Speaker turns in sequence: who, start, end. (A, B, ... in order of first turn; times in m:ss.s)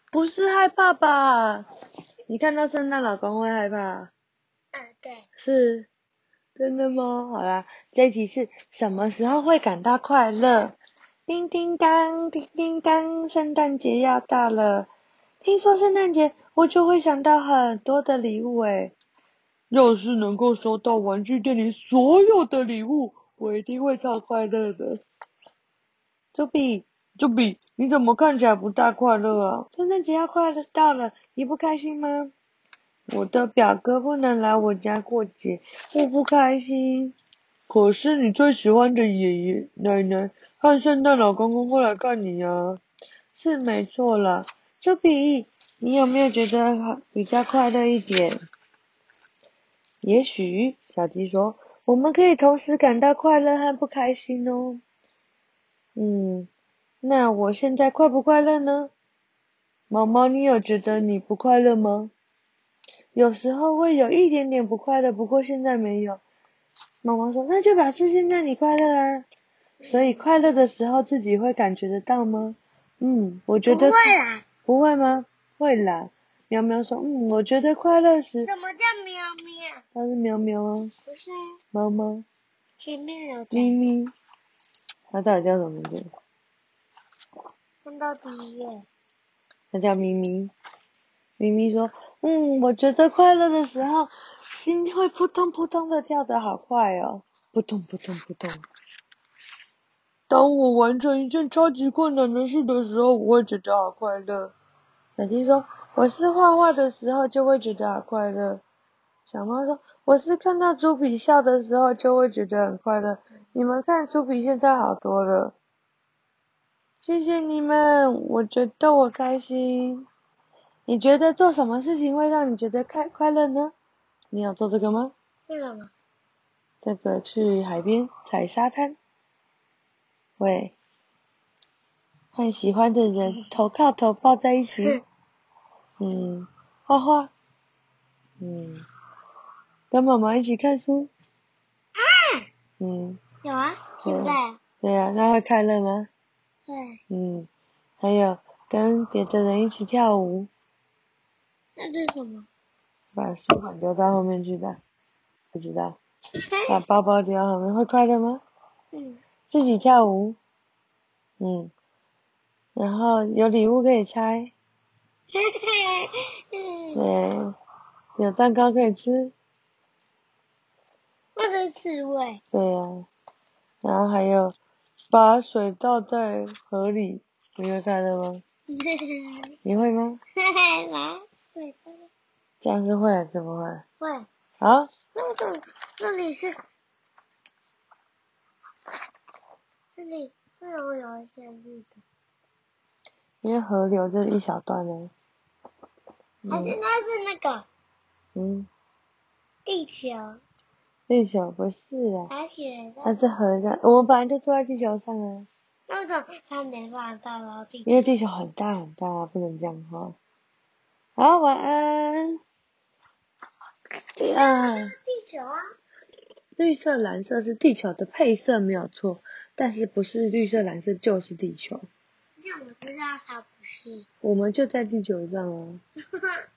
0:00.1-0:01.6 A
0:02.3-0:04.1 A
0:04.7-0:05.2 B
0:05.4-0:05.9 A
0:06.6-0:14.9 A
0:15.4-0:18.9 A
0:19.7-0:25.0 A
0:26.3-0:32.3 A
0:33.1-0:37.1 A
0:37.7-0:42.8 A
0:43.3-0:48.4 A
0:50.0-0:54.8 A
0:56.0-0:56.5 A
0:57.0-0:58.9 A
0:59.9-1:02.1 A
1:03.2-1:06.2 A
1:07.0-1:09.3 A
1:09.8-1:10.1 B
1:09.8-1:14.1 A
1:13.6-1:14.5 B
1:14.6-1:18.5 A
1:18.4-1:19.8 B
1:19.9-1:20.9 A
1:21.0-1:21.4 B
1:21.7-1:22.2 A
1:22.8-1:23.8 B
1:23.5-1:24.1 A
1:25.1-1:26.1 A
1:27.8-1:28.8 B
1:29.7-1:30.5 A
1:31.4-1:38.6 A
1:40.3-1:44.5 A
1:45.2-1:48.6 A
1:49.2-1:55.5 A
1:57.0-2:00.0 A
2:00.9-2:03.7 A
2:04.3-2:05.1 A
2:05.5-2:05.9 B
2:06.8-2:09.0 A
2:10.4-2:10.7 A
2:12.3-2:15.0 A
2:16.0-2:17.3 A
2:18.4-2:18.8 A
2:19.9-2:21.1 A
2:22.0-2:22.4 B
2:22.8-2:23.2 A
2:23.4-2:24.6 B
2:24.0-2:26.1 A
2:26.7-2:27.0 B
2:27.1-2:27.5 A
2:28.0-2:30.5 A
2:31.8-2:32.5 B
2:33.1-2:34.8 A
2:35.5-2:36.0 A
2:36.7-2:38.4 A
2:38.9-2:39.2 B
2:39.5-2:40.4 A
2:41.4-2:41.7 A
2:42.8-2:44.5 A
2:45.3-2:47.0 B
2:46.9-2:47.5 A
2:48.2-2:49.3 A
2:51.4-2:52.4 B
2:52.5-2:53.1 A
2:53.8-2:54.5 A
2:55.1-2:58.4 A
2:58.7-2:59.4 B
2:59.6-3:00.2 A
3:00.5-3:02.1 B
3:02.6-3:03.8 A
3:04.0-3:04.3 B
3:04.6-3:04.9 A
3:05.1-3:06.6 B
3:10.0-3:12.0 B
3:13.4-3:15.1 A
3:16.4-3:16.8 A
3:16.5-3:17.7 B
3:18.3-3:18.7 A
3:19.6-3:20.4 B
3:21.1-3:22.3 A
3:22.3-3:23.2 B
3:23.0-3:25.5 A
3:25.9-3:28.1 B
3:27.8-3:30.2 A
3:31.2-3:32.4 A
3:34.2-3:34.9 A
3:34.3-3:35.6 B
3:36.6-3:41.8 A
3:42.4-3:44.1 B
3:44.2-3:45.8 A